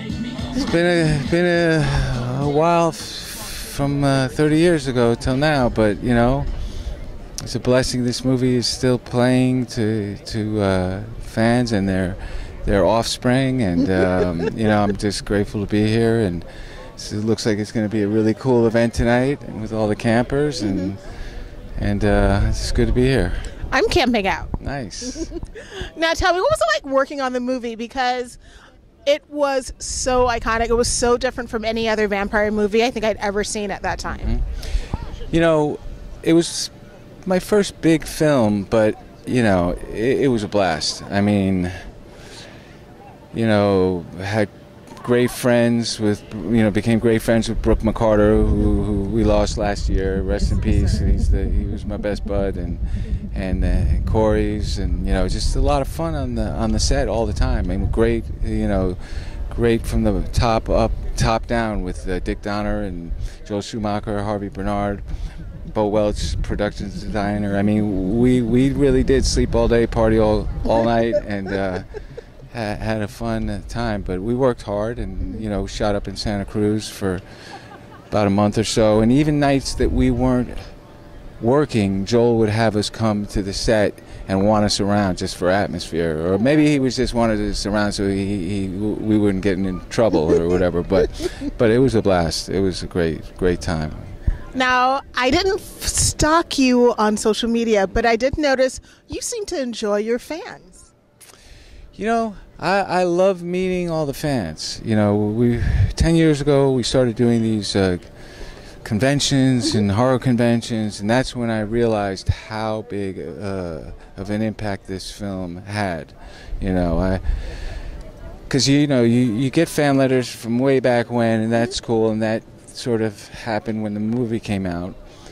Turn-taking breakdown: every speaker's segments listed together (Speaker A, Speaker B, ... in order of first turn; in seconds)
Speaker A: 0.5-6.5, 7.4-16.4, 17.0-21.0, 21.8-23.5, 24.6-25.3, 34.1-34.5, 35.3-36.7, 37.2-41.8, 43.3-65.0, 65.7-71.9, 72.5-77.2, 78.1-80.7, 81.4-94.1, 102.0-108.1, 108.8-117.5, 118.5-125.0
Speaker B: 20.6-20.9, 23.7-24.5, 25.2-28.4, 29.1-34.3, 94.5-100.9